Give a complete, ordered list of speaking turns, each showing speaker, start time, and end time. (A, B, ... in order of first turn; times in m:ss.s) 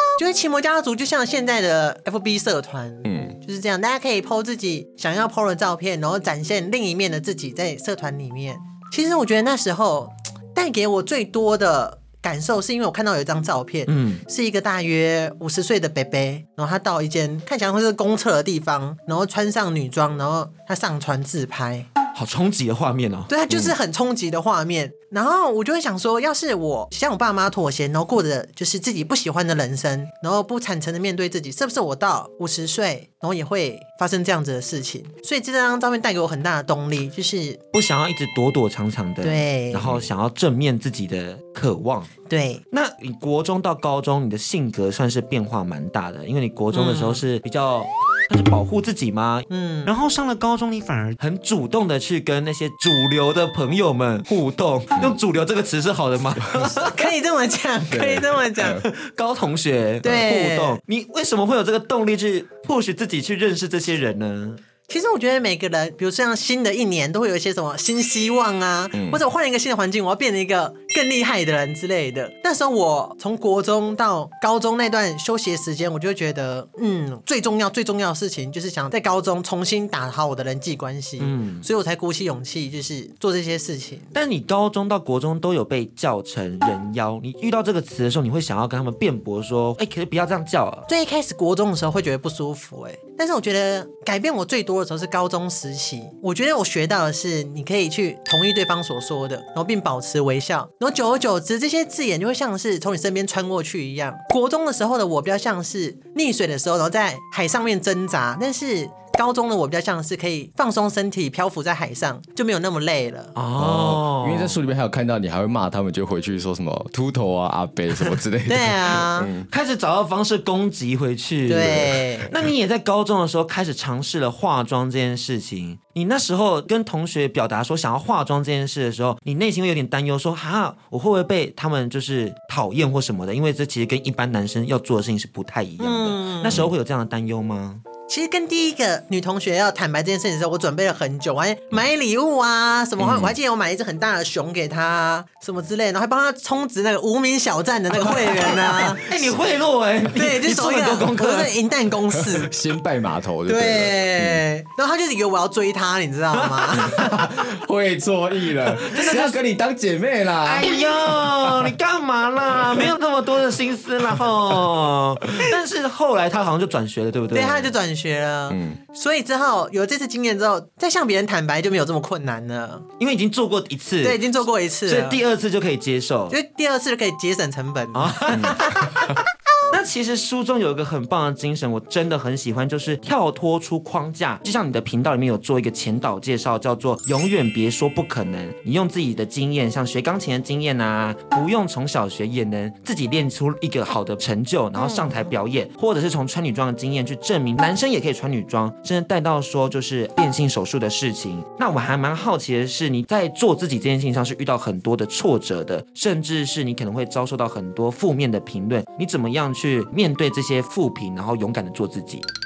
0:00.2-0:21.9 A
0:03.0-0:03.4 B
0:13.9-0:14.2 C
0:22.1-0:23.7 C
0:23.3-0:37.6 A
0:37.7-0:42.1 C
0:39.2-0:39.9 A
0:42.3-0:42.6 A
0:42.7-0:57.1 C
0:46.7-0:47.2 A
0:49.5-0:49.9 A
0:56.8-0:58.8 A
0:57.9-0:58.8 B
0:58.9-1:04.6 C
1:00.0-1:00.8 A
1:04.9-1:24.1 A
1:08.9-1:09.2 B
1:21.2-1:21.6 C
1:24.1-1:30.9 C
1:30.9-1:53.3 A
1:53.4-1:54.6 C
1:53.6-1:59.5 B
1:58.4-1:59.3 A
1:59.5-2:17.8 C
2:01.5-2:02.3 A
2:15.8-2:16.6 A
2:18.1-2:29.0 A
2:23.0-2:23.3 B
2:28.1-2:31.5 C
2:30.2-2:32.5 A
2:32.1-2:34.4 B
2:33.5-2:37.3 A
2:36.3-2:36.8 C
2:36.9-2:40.7 B
2:38.6-2:39.4 C
2:40.4-2:47.7 C
2:41.4-2:41.7 B
2:47.3-2:52.8 A
2:48.5-2:48.8 B
2:53.0-2:54.3 C
2:54.0-2:55.2 A
2:54.9-2:56.4 C
2:56.3-2:58.9 A
2:57.9-2:58.9 C
2:59.7-3:32.2 C